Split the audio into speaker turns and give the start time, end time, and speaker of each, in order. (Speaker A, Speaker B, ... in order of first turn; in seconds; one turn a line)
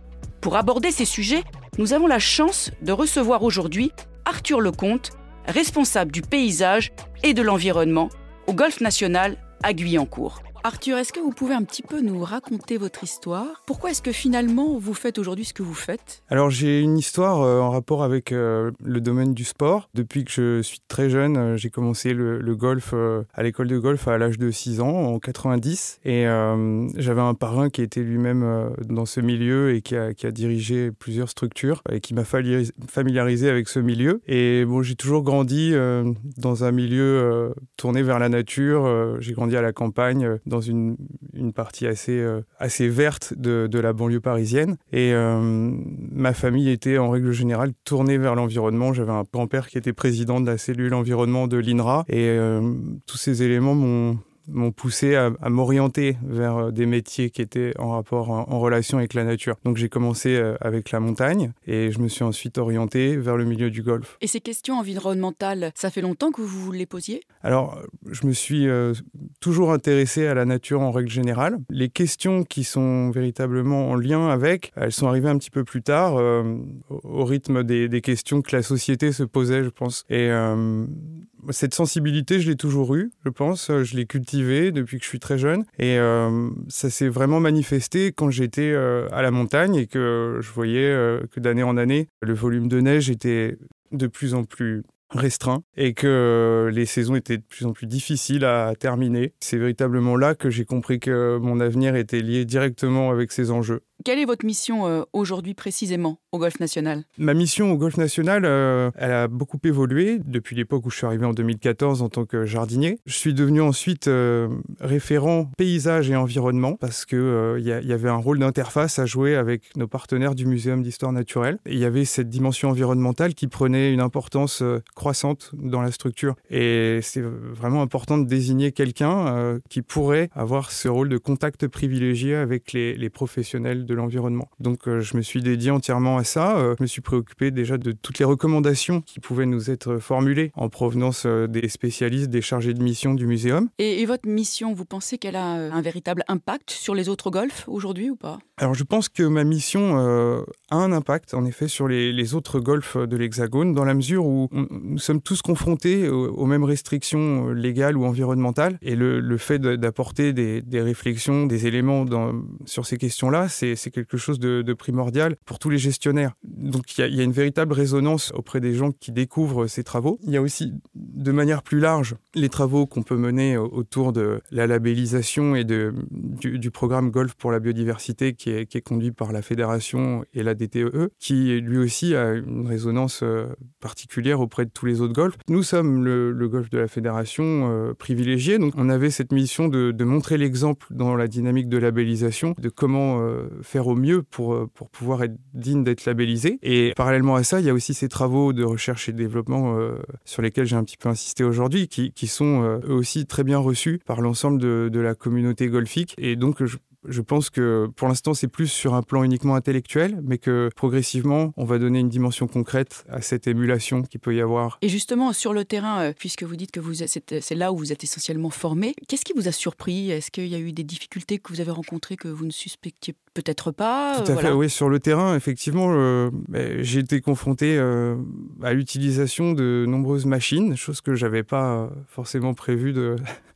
Speaker A: 0.4-16.2
Speaker B: 16.3-64.2
Speaker A: 64.2-67.2
Speaker B: 67.4-103.8
Speaker A: 104.0-107.0
Speaker B: 107.2-143.7
Speaker A: 143.8-148.4
Speaker B: 148.6-214.8
Speaker A: 214.8-224.6
Speaker B: 224.2-233.2